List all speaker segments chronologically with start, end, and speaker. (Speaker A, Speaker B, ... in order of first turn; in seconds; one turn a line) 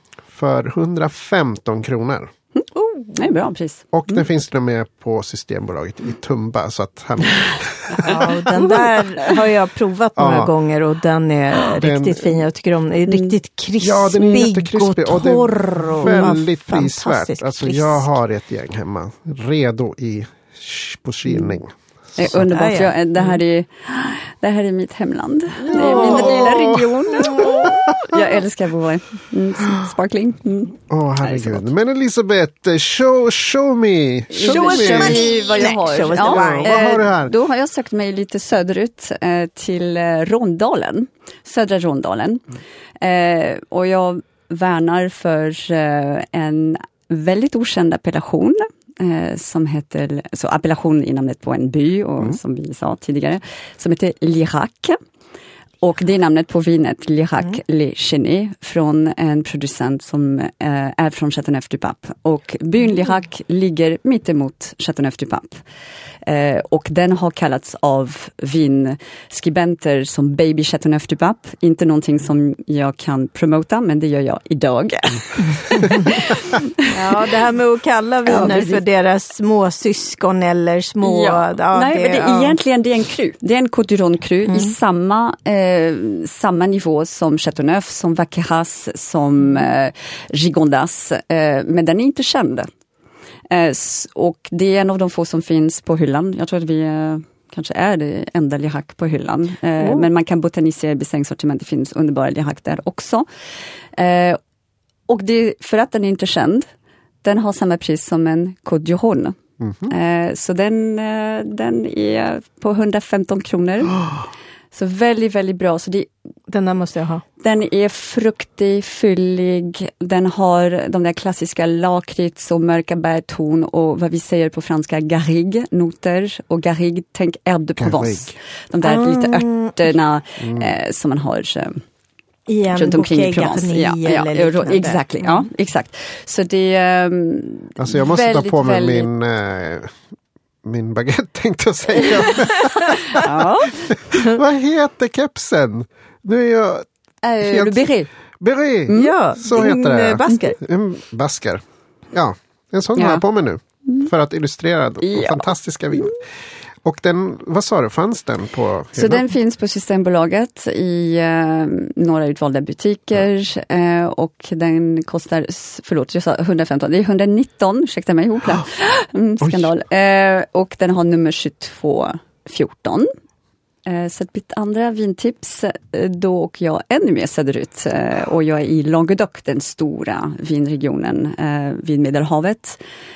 Speaker A: 0.3-2.3
Speaker B: 2.8-3.2
Speaker C: 3.1-4.2
Speaker A: 3.9-8.9
Speaker B: 8.0-18.1
Speaker A: 10.2-10.5
Speaker A: 11.8-12.4
Speaker A: 13.8-22.4
Speaker C: 16.0-16.3
Speaker C: 21.3-21.5
Speaker C: 22.1-31.7
Speaker B: 22.3-23.4
Speaker A: 25.7-28.4
Speaker B: 25.7-26.6
Speaker B: 27.1-27.7
Speaker A: 30.9-35.6
Speaker C: 34.3-42.4
Speaker B: 34.4-36.8
Speaker A: 36.2-37.3
Speaker C: 43.0-55.0
Speaker C: 55.8-65.6
Speaker C: 66.2-77.2
Speaker B: 75.5-76.1
Speaker B: 76.8-82.6
Speaker C: 78.2-78.8
Speaker C: 81.0-92.7
Speaker B: 84.5-84.7
Speaker C: 93.5-103.2
Speaker B: 99.8-100.0
Speaker C: 103.9-104.4
Speaker C: 105.1-106.7
Speaker C: 107.2-114.0
Speaker A: 109.6-109.9
Speaker C: 114.7-116.1
Speaker B: 116.5-117.2
Speaker C: 117.4-131.8
Speaker A: 127.8-128.4
Speaker B: 128.8-129.9
Speaker A: 130.4-130.7
Speaker B: 132.5-135.5
Speaker C: 132.7-139.1
Speaker A: 137.8-140.0
Speaker A: 140.6-146.9
Speaker C: 143.1-143.9
Speaker C: 147.2-148.1
Speaker A: 147.4-151.6
Speaker C: 148.9-149.1
Speaker B: 148.9-150.6
Speaker A: 152.1-156.2
Speaker C: 152.9-153.2
Speaker C: 155.0-155.5
Speaker A: 156.8-159.2
Speaker C: 158.9-173.1
Speaker A: 169.4-169.7
Speaker C: 173.8-182.8